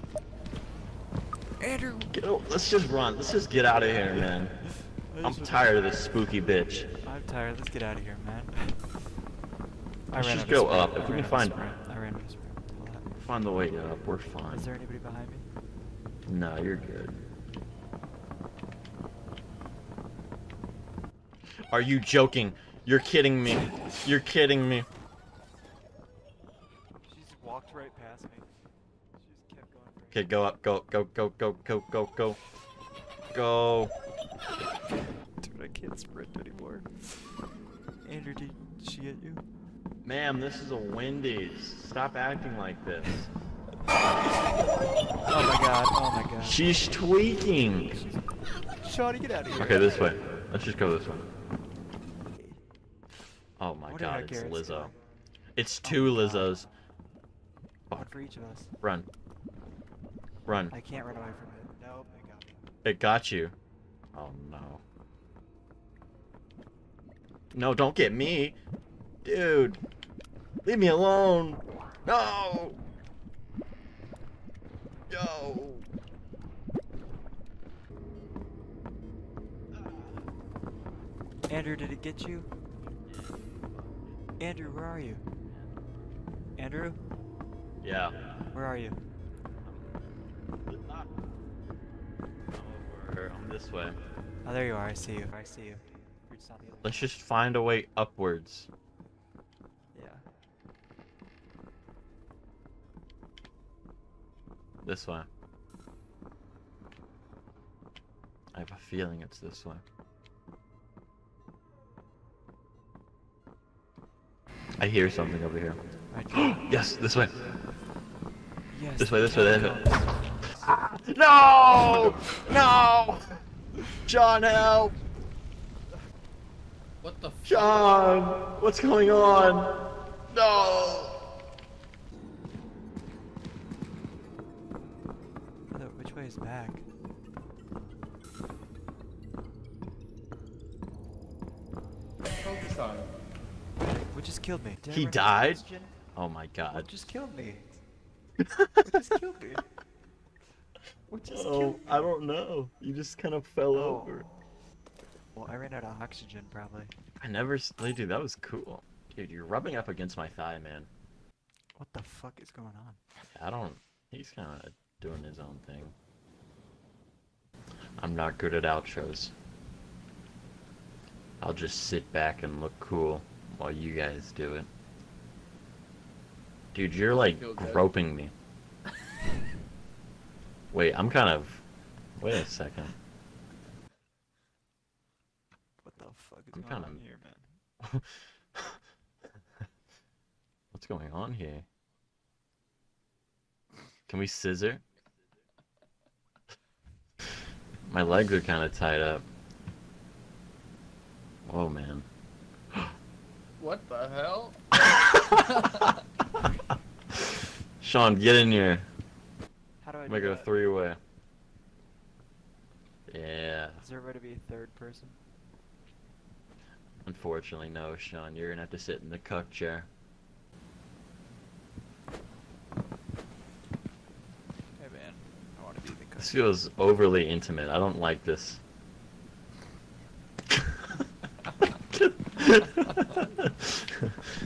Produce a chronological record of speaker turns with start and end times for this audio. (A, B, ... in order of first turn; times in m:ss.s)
0:01.6-0:02.1 A
0:02.1-0:04.6 B
0:04.8-0:05.8 A
0:05.2-0:06.9 B
0:07.0-0:09.1 A
0:10.1-0:13.2 A
0:10.1-0:11.8 B
0:13.2-0:14.7 B
0:14.5-0:15.5 A
0:16.3-0:17.2 B
0:21.7-0:24.9 B
0:27.0-0:28.5 A
0:29.2-0:30.3 A
0:30.1-0:32.4 B
0:33.3-0:33.9 B
0:35.4-0:37.5 A
0:38.0-0:39.4 A
0:40.0-0:43.3 B
0:45.3-0:46.6 A
0:46.4-0:48.0 B
0:47.9-0:49.9 A
0:49.6-0:51.3 B
0:52.3-0:52.6 A
0:53.6-0:54.9 B
0:53.9-0:55.0 A
0:55.6-0:56.7 B
0:55.8-0:56.5 A
0:57.9-0:58.7 A
0:58.8-0:59.1 B
1:00.4-1:00.7 B
1:00.7-1:02.6 A
1:02.8-1:03.5 B
1:04.1-1:04.8 B
1:07.5-1:08.5 B
1:09.2-1:09.8 B
1:10.6-1:12.8 B
1:15.1-1:15.8 B
1:21.5-1:22.5 A
1:23.1-1:24.2 B
1:24.4-1:25.2 A
1:26.6-1:27.0 A
1:27.8-1:28.3 B
1:28.5-1:29.0 A
1:30.7-1:31.1 B
1:32.5-1:34.0 B
1:34.4-1:37.2 A
1:36.8-1:38.7 B
1:39.9-1:40.2 A
1:44.8-1:45.3 B
1:48.5-1:49.8 B
1:54.8-1:55.8 B
1:56.1-1:56.7 A
1:56.3-1:57.5 B
1:58.7-2:00.7 A
1:59.0-2:00.0 B
2:00.6-2:03.2 B
2:01.8-2:02.2 A
2:04.0-2:04.9 B
2:07.0-2:07.8 C
2:07.4-2:09.7 B
2:10.3-2:11.1 B
2:15.7-2:16.8 A
2:22.4-2:23.1 C
2:23.8-2:26.0 A
2:24.9-2:25.6 B
2:26.1-2:26.9 B
2:26.7-2:27.8 A
2:28.4-2:28.8 B
2:28.8-2:29.6 A
2:31.1-2:32.1 A
2:31.3-2:34.2 B
2:33.7-2:34.2 A
2:35.3-2:36.9 A
2:37.2-2:40.9 B
2:41.8-2:43.0 A
2:43.3-2:45.9 B
2:48.0-2:49.3 B
2:51.4-2:54.7 B
2:56.7-2:58.3 B
2:57.1-2:57.9 C
3:00.7-3:01.6 B
3:02.2-3:02.9 B
3:05.8-3:07.5 A
3:06.5-3:07.0 B
3:07.8-3:08.8 B
3:10.7-3:11.6 B
3:14.1-3:14.8 B
3:17.8-3:19.3 B
3:21.4-3:22.0 B
3:23.6-3:26.0 C
3:24.9-3:25.4 B
3:27.2-3:28.9 B
3:29.8-3:30.5 A
3:30.1-3:31.0 B
3:33.1-3:33.8 B
3:33.8-3:35.2 A
3:37.0-3:39.9 B
3:44.8-3:46.3 A
3:46.2-3:48.6 B
3:50.5-3:50.8 B
3:51.6-3:54.2 B